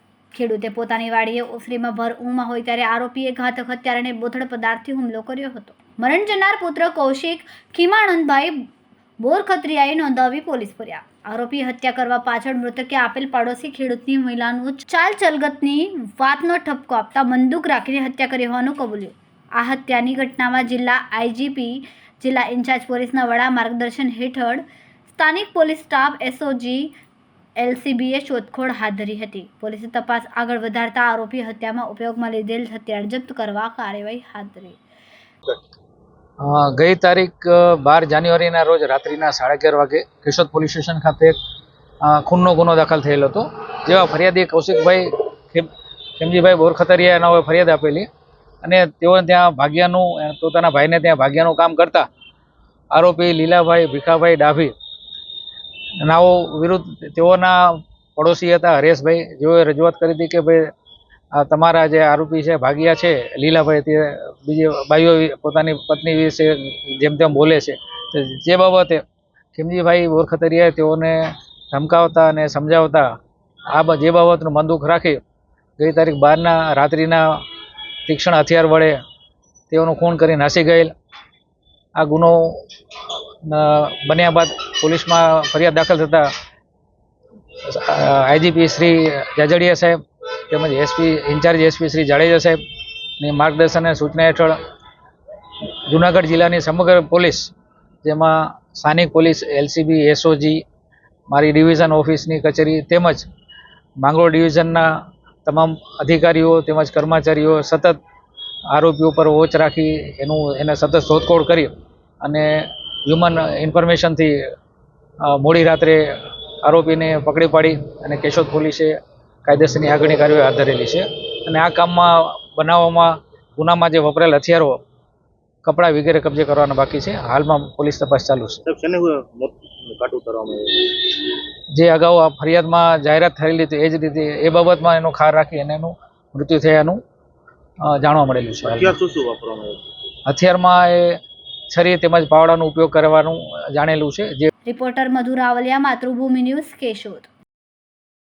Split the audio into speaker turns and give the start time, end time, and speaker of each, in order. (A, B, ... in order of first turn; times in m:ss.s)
0:00.3-0:08.7 A
0:09.2-0:24.6 A
0:25.1-0:26.9 A
0:27.6-0:34.8 A
0:36.4-0:41.4 B
0:42.0-0:48.1 B
0:48.6-0:52.1 B
0:52.9-0:54.7 B
0:56.0-1:00.7 B
1:01.3-1:09.0 B
1:09.5-1:13.2 B
1:13.7-1:15.2 B
1:15.8-1:17.4 B
1:18.1-1:19.0 B
1:19.7-1:20.9 B
1:22.0-1:26.3 B
1:27.6-1:32.6 B
1:33.2-1:34.6 B
1:35.9-1:37.5 B
1:38.0-1:40.6 B
1:41.3-1:43.3 B
1:44.0-1:44.9 B
1:45.4-1:48.0 B
1:48.7-1:54.4 B
1:55.2-2:04.8 B
2:05.6-2:08.6 B
2:08.6-2:10.8 C
2:11.7-2:17.0 B
2:17.8-2:19.0 B
2:18.6-2:19.8 C
2:20.2-2:24.5 B
2:24.6-2:27.3 A